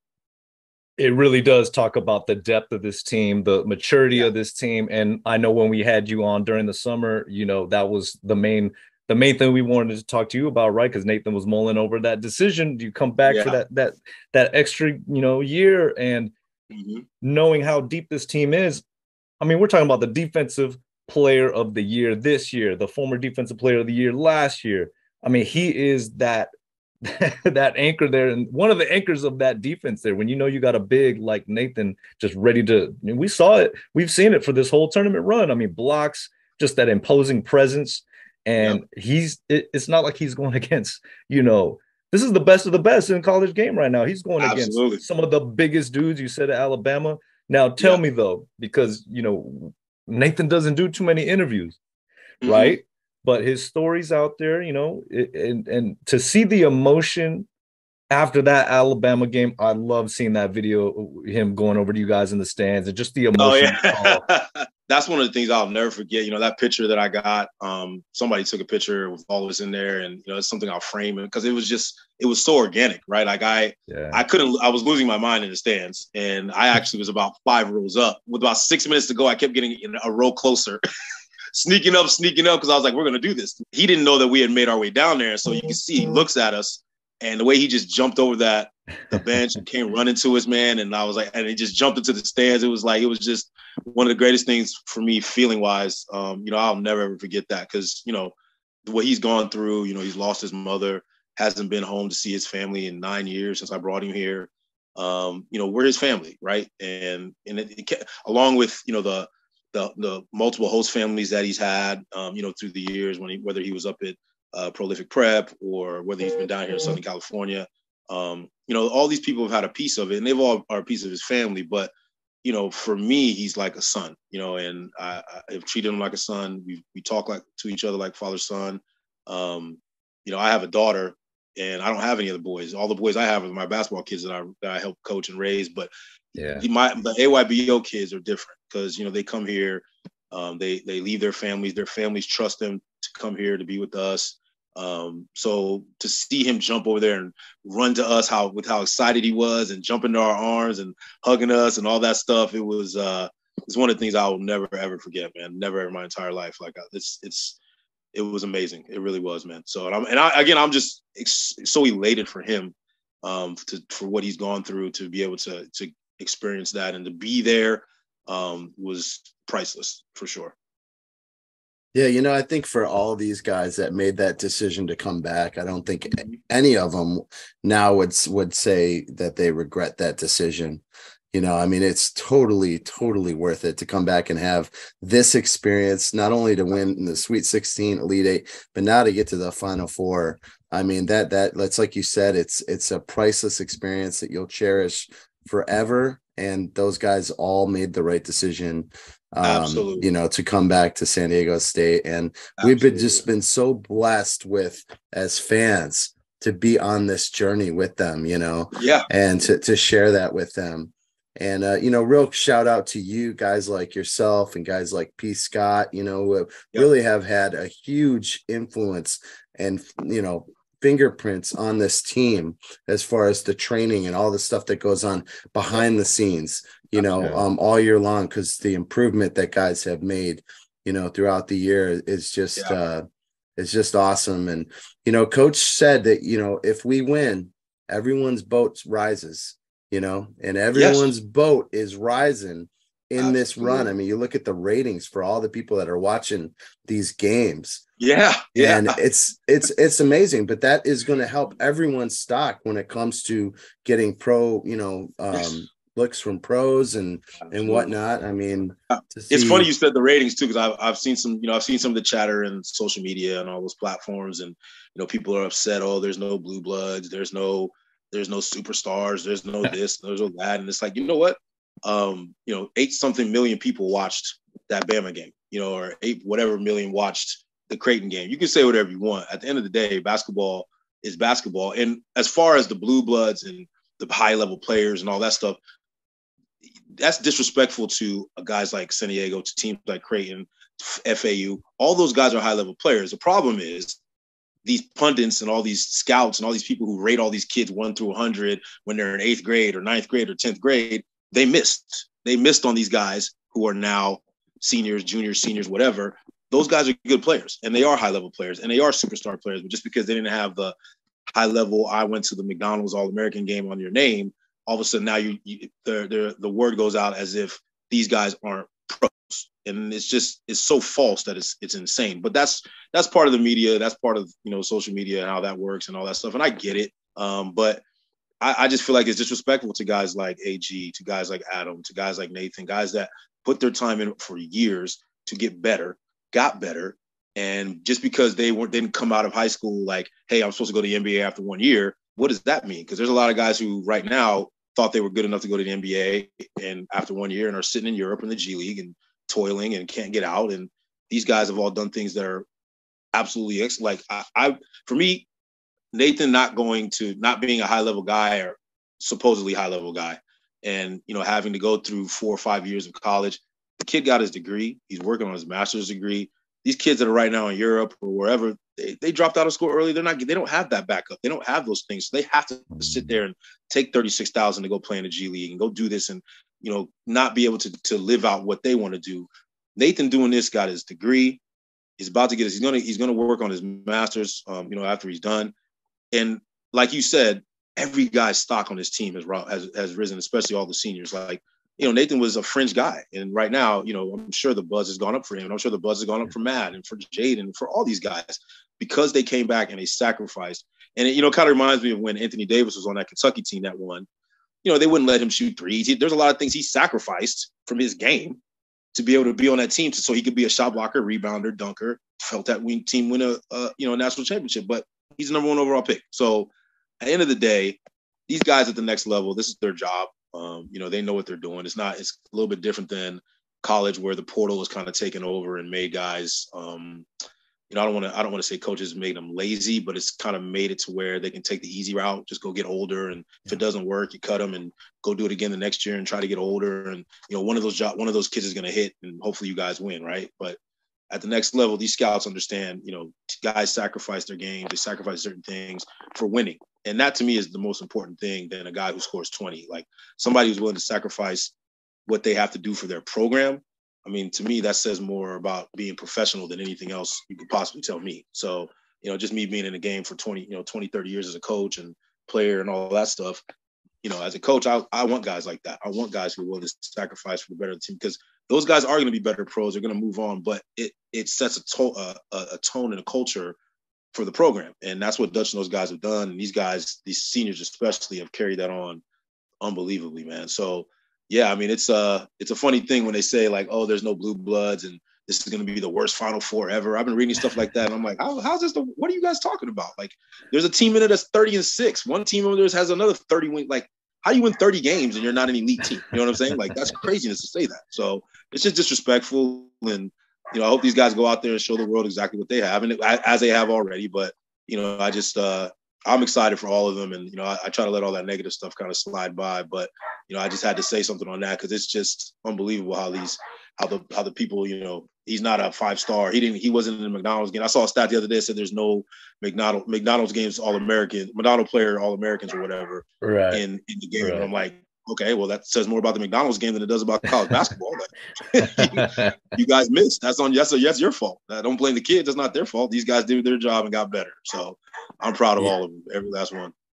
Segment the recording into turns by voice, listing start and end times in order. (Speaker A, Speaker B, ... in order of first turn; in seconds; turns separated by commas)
Speaker A: 1.0-16.3, Speaker B: 13.2-13.6, Speaker B: 16.7-17.0, Speaker A: 17.2-18.8, Speaker A: 19.4-26.5, Speaker A: 27.0-51.8, Speaker B: 44.4-45.0, Speaker B: 52.4-52.8, Speaker A: 52.4-57.5, Speaker A: 58.1-64.2, Speaker B: 63.4-80.8, Speaker A: 73.9-74.2, Speaker B: 81.5-98.3, Speaker B: 98.8-121.9, Speaker B: 122.4-135.9, Speaker A: 136.3-136.7, Speaker B: 136.6-157.6, Speaker B: 158.1-170.5, Speaker C: 171.9-233.0, Speaker B: 199.4-200.1, Speaker B: 202.6-203.2, Speaker B: 208.8-209.1, Speaker A: 227.2-227.4, Speaker C: 233.6-247.8, Speaker B: 240.7-241.1, Speaker B: 243.2-243.9, Speaker B: 248.0-249.0, Speaker C: 248.5-259.7, Speaker B: 257.5-257.9, Speaker B: 259.3-285.6, Speaker B: 287.0-294.0, Speaker B: 294.6-310.7, Speaker B: 311.3-327.8, Speaker B: 328.4-352.4, Speaker B: 353.1-355.3, Speaker B: 355.9-381.4, Speaker A: 372.8-373.1, Speaker B: 382.0-385.5, Speaker B: 386.1-404.1, Speaker B: 404.6-408.4, Speaker B: 408.9-427.1, Speaker B: 427.7-440.6, Speaker B: 441.1-451.5, Speaker B: 452.1-463.4, Speaker B: 464.0-473.6, Speaker B: 474.1-479.0, Speaker B: 479.6-536.7, Speaker A: 523.2-523.6, Speaker A: 524.2-524.5, Speaker A: 528.5-529.4